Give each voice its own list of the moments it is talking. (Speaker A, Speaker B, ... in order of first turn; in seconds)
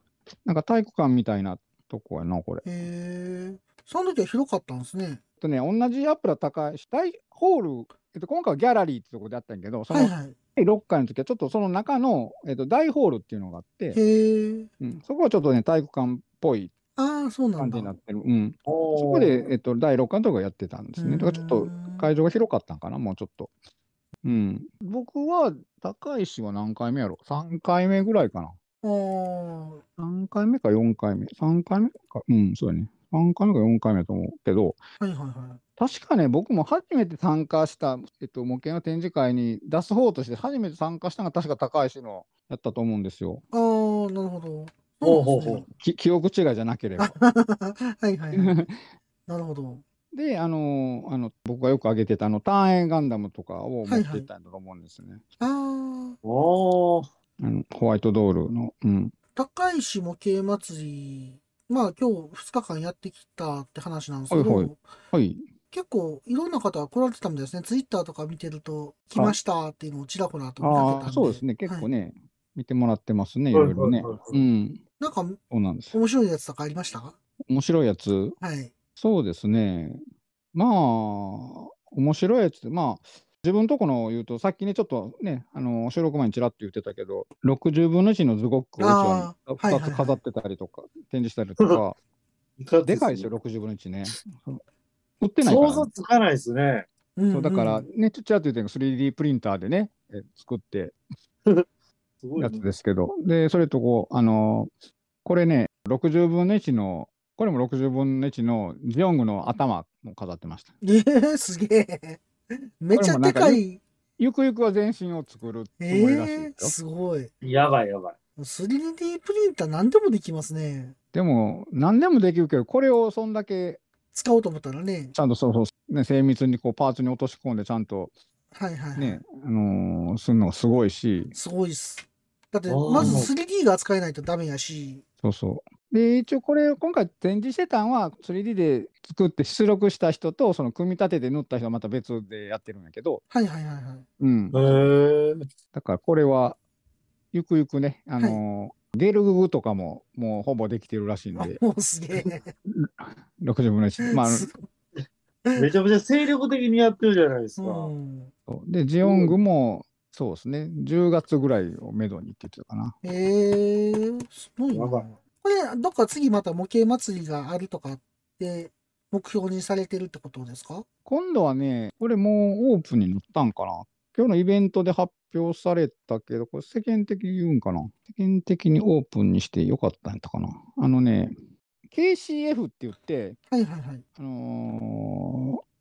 Speaker A: 0.4-2.6, 5.4-14.0, 14.8-16.7, 17.6-23.5, 24.2-28.5, 30.0-34.8, 35.8-43.4, 45.8-47.1, 48.3-48.8, 50.1-55.4, 57.4-59.1, 64.3-65.5, 70.6-74.8, 75.5-75.9, 77.5-78.4, 79.0-80.0, 80.5-92.0, 92.8-94.6, 95.2-95.9, 97.3-101.0, 102.4-104.7, 105.2-110.7, 112.9-113.6, 114.2-116.7, 121.1-123.8, 125.1-128.1, 128.9-131.3, 133.0-133.2, 135.2-143.2, 144.2-144.6, 145.7-146.6, 147.3-151.6, 152.7-154.5, 158.5-162.9, 171.1-181.3, 181.9-183.4, 184.2-185.6
Speaker B: 2.6-5.2, 9.9-10.3, 13.9-14.7, 17.0-17.9, 21.0-22.1, 28.8-29.8, 35.0-35.6, 43.5-45.6, 47.0-48.6, 49.3-49.8, 53.9-54.3, 55.4-56.1, 59.3-64.8, 65.7-71.9, 75.0-75.4, 75.9-77.1, 78.4-78.7, 88.8-90.2, 97.2-97.8, 110.8-112.2, 112.8-113.8, 115.8-117.3, 118.4-120.9, 124.1-125.1, 128.5-129.2, 131.3-135.0, 143.3-144.0, 151.3-152.5, 154.0-154.6, 157.6-158.3, 163.0-170.8, 183.5-184.0
Speaker C: 18.7-19.5, 45.0-45.6, 56.2-57.1, 73.5-74.3, 92.6-93.3, 95.4-96.9, 102.2-102.6, 117.4-118.2, 132.7-133.3, 144.5-145.4, 155.6-157.9, 159.0-159.3, 164.7-165.1